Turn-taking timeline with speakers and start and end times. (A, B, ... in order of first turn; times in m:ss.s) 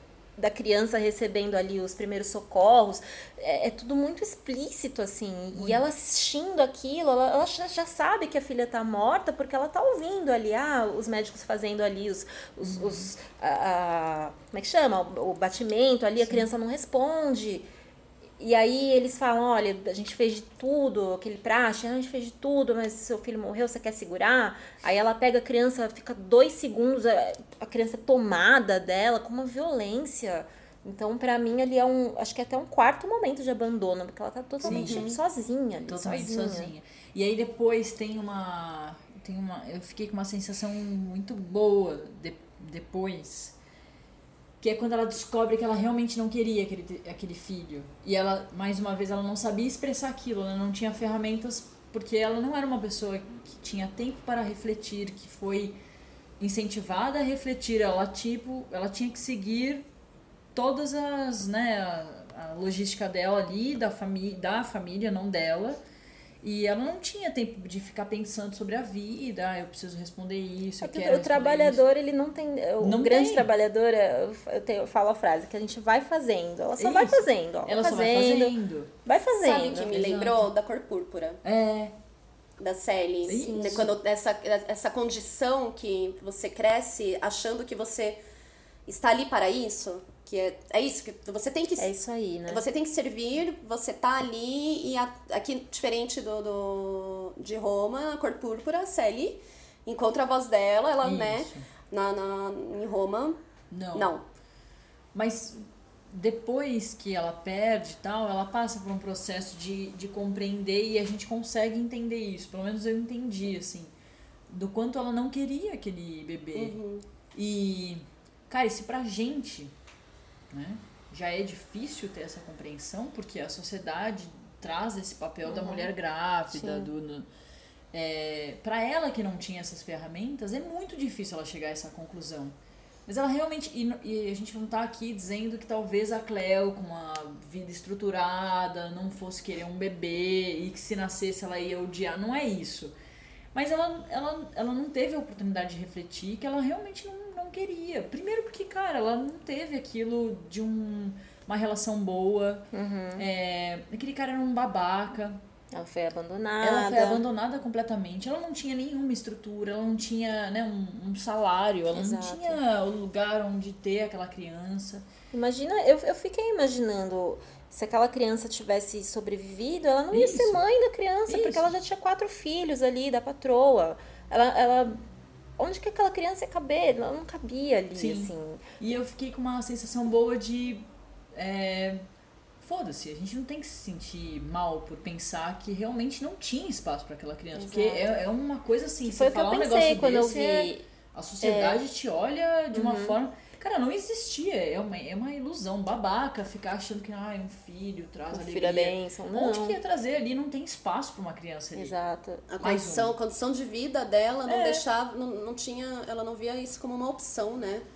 0:00.4-0:17.7 A
0:05.6-0:05.9 B
0:12.6-0:13.1 B
0:18.4-0:36.7 A
0:34.6-0:35.2 C
0:34.6-0:35.2 B
0:35.9-0:43.6 B
0:44.6-0:55.8 B
0:56.4-0:59.9 B
1:00.5-1:05.8 B
1:06.4-1:11.8 B
1:10.8-1:19.9 A
1:12.8-1:13.5 B
1:16.8-1:18.9 B
1:19.4-1:21.4 C
1:19.9-1:20.5 B
1:21.4-1:21.9 B
1:22.6-1:28.2 C
1:23.3-1:23.9 A
1:23.3-1:23.9 B
1:28.9-1:31.9 C
1:31.8-1:32.6 A
1:32.5-1:43.4 C
1:41.0-1:41.7 B
1:43.7-1:44.1 B
1:43.9-1:44.2 C
1:45.1-1:53.9 B
1:54.5-1:56.8 B
1:56.6-1:57.0 C
1:57.3-1:59.7 B
2:00.5-2:07.3 B
2:05.4-2:05.9 A
2:06.5-2:06.9 A
2:07.9-2:23.0 B
2:23.5-2:35.4 B
2:32.7-2:33.2 A
2:35.7-2:37.2 A
2:36.6-2:45.1 B
2:41.9-2:42.6 A
2:45.3-2:55.0 A
2:50.1-2:50.6 B
2:51.3-2:51.7 B
2:55.6-2:58.8 A
2:58.0-3:02.0 B
3:02.6-3:22.0 B
3:07.6-3:08.1 A
3:09.0-3:10.8 A
3:11.4-3:11.8 A
3:12.7-3:13.2 A
3:18.3-3:19.8 A
3:21.8-3:22.5 A
3:22.5-3:27.8 C
3:22.6-3:23.1 B
3:24.5-3:24.8 B